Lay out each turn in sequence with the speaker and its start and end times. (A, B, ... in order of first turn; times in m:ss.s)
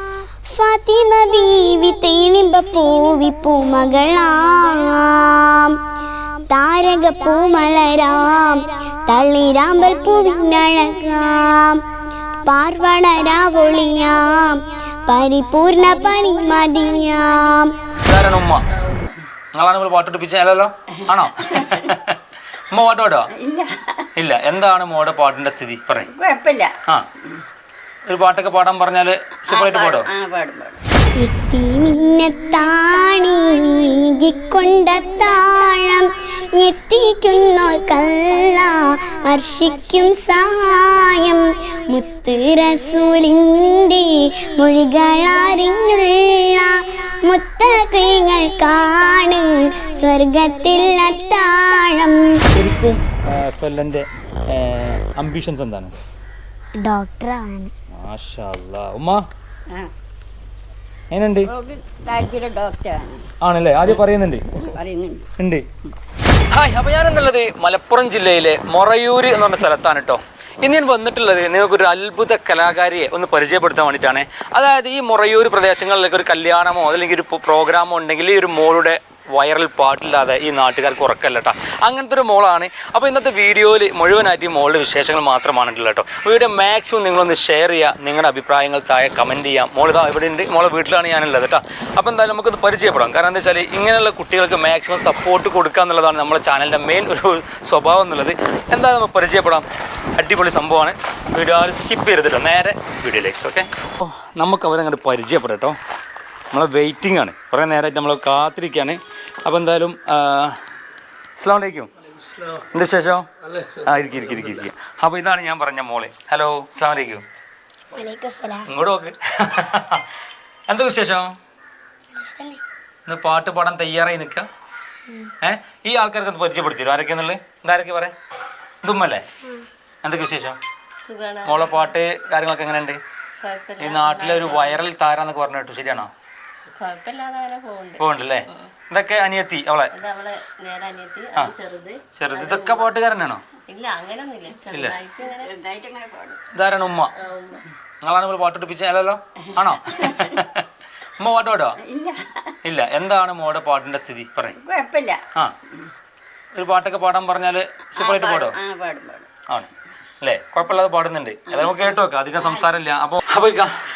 0:00.5-0:05.8 A
0:06.5-0:11.8 A
0:12.4-0:17.9 A
0:18.0-0:18.6 B
0:19.5-0:22.2 B
0:21.5-0:21.8 C
0:22.7-0:23.3 B
0:23.3-0:24.1 C
0:24.2-0:26.1 B
0:26.1-0:26.8 C
0:28.0-0:30.1 B
0:29.5-0:30.8 C
0:31.2-0:52.4 A
0:52.5-0:56.0 B
0:56.8-0:57.7 A
0:58.0-0:59.2 B
1:01.1-1:01.5 B
1:01.4-1:03.3 C
1:03.4-1:04.4 B
1:04.6-1:05.3 C
1:06.5-1:39.6 B
1:40.2-1:45.8 B
1:46.5-1:50.5 B
1:51.4-1:51.9 B
1:52.6-1:57.2 B
1:57.9-1:58.7 A
1:58.7-2:00.0 B
2:00.7-2:01.3 B
2:02.2-2:02.6 A
2:03.1-2:04.5 B
2:05.4-2:08.1 B
2:08.8-2:09.2 B
2:10.0-2:10.6 B
2:11.0-2:11.9 D
2:11.4-2:13.0 B
2:13.4-2:14.8 D
2:13.8-2:16.1 B
2:16.8-2:18.0 D
2:18.0-2:19.9 B
2:19.9-2:22.9 D
2:22.1-2:23.4 B
2:23.7-2:25.6 D
2:24.7-2:25.0 B
2:25.3-2:26.4 C
2:26.5-2:27.1 B
2:27.2-2:27.6 D
2:28.0-2:30.6 B
2:29.9-2:30.3 C
2:31.2-2:31.8 B
2:31.8-2:32.6 C
2:32.6-2:34.6 B
2:34.6-2:35.2 C
2:36.5-2:38.6 B
2:37.9-2:39.3 C
2:40.2-2:43.7 B
2:41.5-2:41.9 C